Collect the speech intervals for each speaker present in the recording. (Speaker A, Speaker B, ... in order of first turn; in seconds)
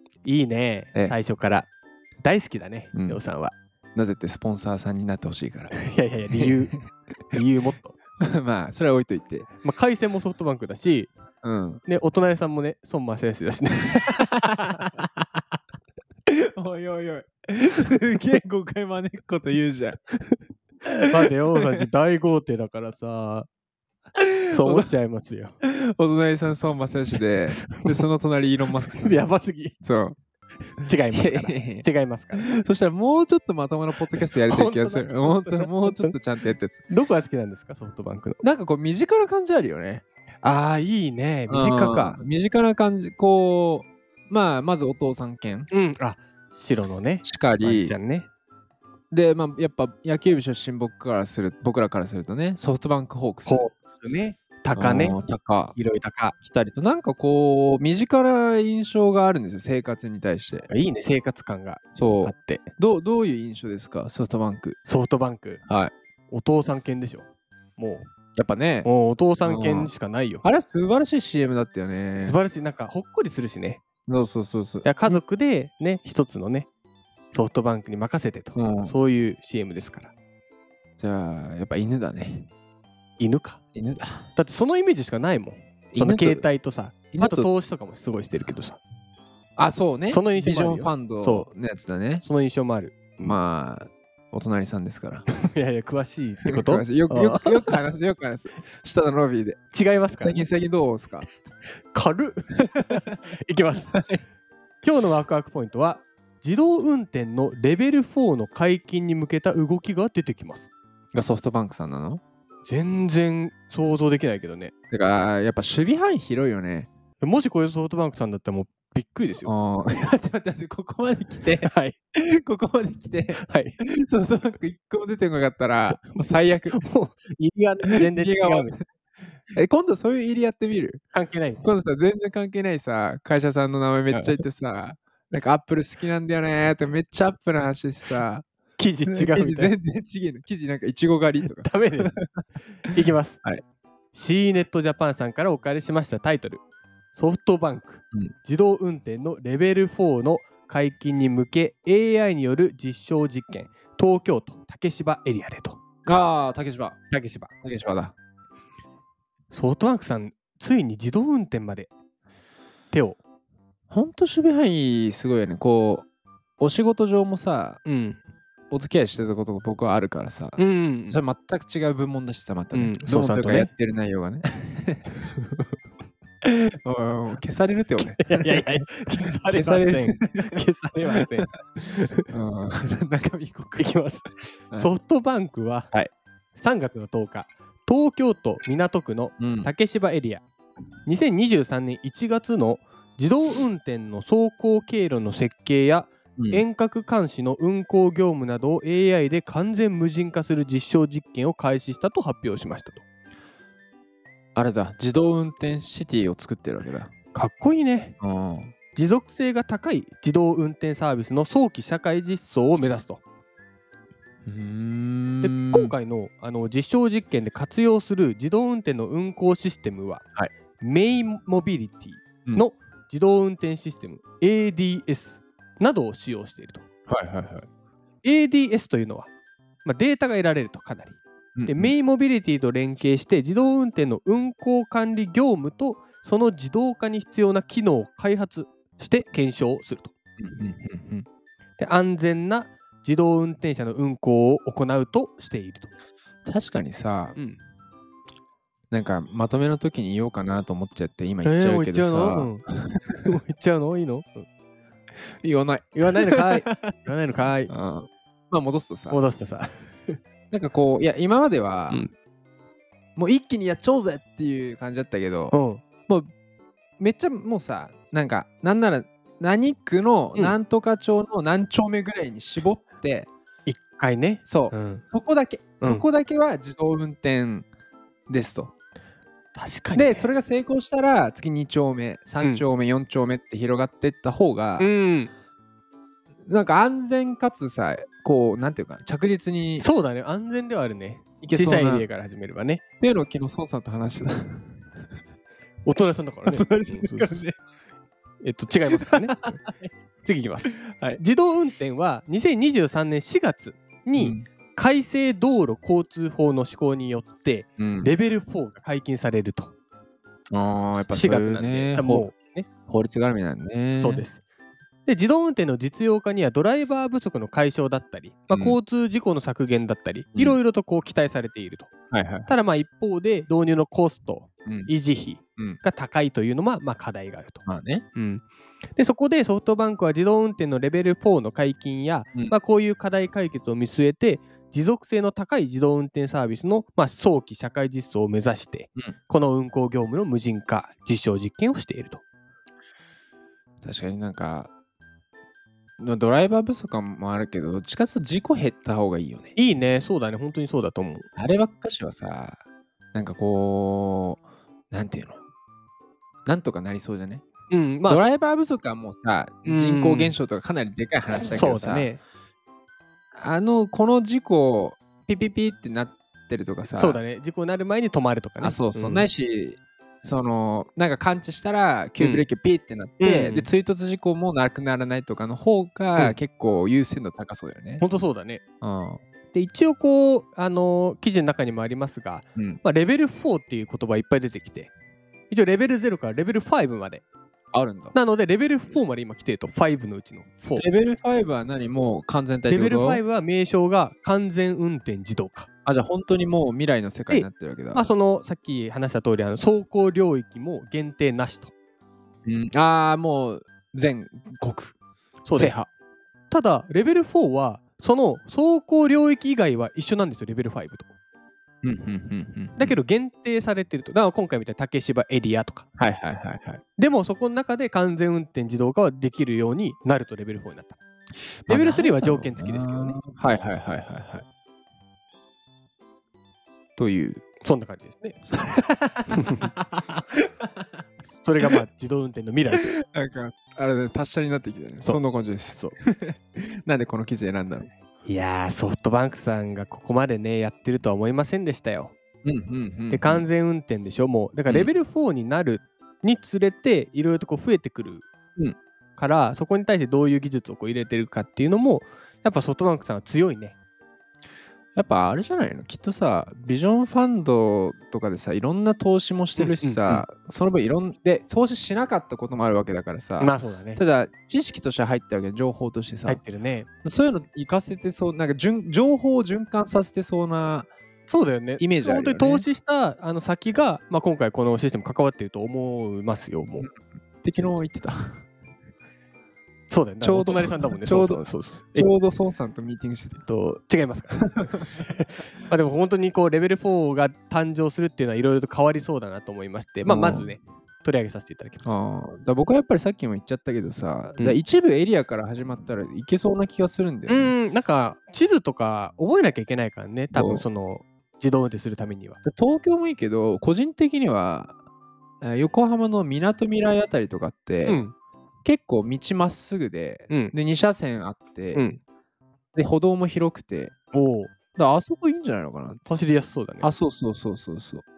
Speaker A: 0.2-1.7, 2.2-3.5, 5.7-6.8, 7.3-8.0, 9.6-11.1, 11.9-14.8, 21.0-23.5, 24.5-25.6, 27.7-28.0, 28.8-29.8, 30.7-32.5, 34.4-36.2, 36.9-38.4, 40.4-42.2, 45.7-48.3, 53.5-55.2, 55.8-56.4, 60.7-62.6, 64.8-65.6, 66.3-68.1, 68.8-70.5, 71.9-73.8, 74.8-76.7, 77.3-80.1, 83.2-83.6, 84.3-88.8, 90.1-91.5, 92.2-93.4, 95.4-97.8, 99.7-100.4, 101.9-104.0, 104.8-110.7, 112.7-114.7, 117.2-119.5, 121.6-122.0, 123.4-123.8, 126.0-128.8, 131.1-131.6, 134.1-134.4, 138.8-139.8, 141.6-143.4, 144.1-146.6, 147.1-155.8, 157.1-157.5, 159.5-161.9, 162.9-163.2, 167.8-168.2, 170.6-171.2, 172.7-173.7, 175.3-175.7, 178.2-182.3, 183.8-185.9, 186.5-190.4, 191.1-203.0, 207.3-208.2, 208.9-213.2, 215.4-220.2, 220.8-226.8, 228.2-229.3, 229.8-240.1, 241.8-245.9, 247.3-247.6, 251.4-252.7, 253.2-254.5, 255.9-257.7, 259.1-260.2, 265.5-265.8, 273.7-275.1, 275.8-276.1, 279.5-280.3, 284.8-285.3, 289.8-292.8, 295.8-297.5, 298.4-299.6, 300.2-309.8, 310.9-312.7, 313.9-314.4, 315.1-321.9, 322.5-327.6, 328.1-342.2, 349.6-351.3, 357.7-358.2, 359.6-360.4, 361.3-362.2, 366.9-369.3, 372.2-372.5, 373.2-373.7, 378.0-378.6, 379.5-384.9, 385.5-387.2, 388.1-390.9, 392.7-395.7, 397.3-401.7, 405.4-405.8, 406.5-411.1, 412.8-415.9, 417.0-421.0, 421.7-423.2, 427.6-428.4, 429.3-429.7, 431.2-432.9, 438.2-442.1, 443.1-448.3, 449.2-453.8, 459.6-460.3, 463.4-464.0, 466.3-466.9, 471.3-476.9, 479.9-482.1, 483.5-491.9, 497.3-502.4, 507.9-508.1, 510.3-510.6, 511.7-512.0, 514.1-514.5, 516.0-516.9
Speaker B: 2.9-3.2, 4.0-5.8, 6.3-6.8, 8.2-9.5, 11.4-11.8, 16.3-20.0, 20.9-21.2, 24.2-24.9, 25.6-29.3, 29.8-30.2, 31.1-36.9, 38.4-40.0, 41.5-45.7, 47.2-48.0, 49.1-53.7, 54.8-55.8, 56.4-60.7, 61.9-64.8, 65.7-65.9, 68.4-68.9, 69.4-72.4, 74.1-75.2, 78.5-79.0, 81.0-82.5, 83.8-84.3, 85.9-86.5, 87.1-87.5, 89.6-92.2, 93.2-95.2, 96.5-99.6, 100.2-101.3, 103.9-104.2, 111.1-112.2, 114.9-116.9, 119.4-126.9, 127.9-128.8, 129.5-131.0, 131.6-138.5, 139.1-142.2, 142.9-143.6, 156.1-157.0, 157.6-158.1, 163.9-166.1, 166.6-167.8, 168.7-175.1, 176.4-181.4, 182.3-183.9, 189.4-189.7, 196.4-196.6, 204.6-207.1, 208.2-208.7, 214.5-215.9, 227.1-227.7, 231.6-231.9, 240.4-241.3, 246.5-247.4, 248.9-253.4, 255.4-256.7, 257.7-259.2, 260.5-262.1, 263.2-266.3, 267.0-273.3, 274.4-277.7, 278.3-278.7, 279.9-284.9, 286.5-289.9, 291.4-292.1, 293.0-294.7, 296.5-297.5, 298.9-299.7, 300.8-301.2, 304.2-304.4, 307.8-308.1, 310.5-312.3, 312.9-314.2, 318.5-318.8, 322.1-322.5, 324.7-324.9, 327.7-328.1, 343.8-344.7, 346.0-349.6, 351.4-352.6, 353.1-355.4, 356.5-357.4, 358.1-362.1, 363.4-367.2, 368.6-378.1, 378.8-379.2, 382.6-382.8, 387.7-388.1, 390.8-393.2, 395.9-398.1, 402.4-404.9, 405.5-405.9, 411.8-413.0, 416.0-416.8, 421.6-424.4, 427.0-427.5, 428.5-430.5, 432.7-437.9, 442.4-443.5, 444.7-444.9, 454.9-466.4, 467.0-470.9, 471.8-472.7, 476.8-478.4, 480.2-483.5, 484.3-484.8, 490.1-490.5, 491.8-497.6, 500.3-500.7, 502.4-504.8, 505.4-508.0, 508.6-511.9, 512.8-513.9, 514.8-516.0, 516.8-518.0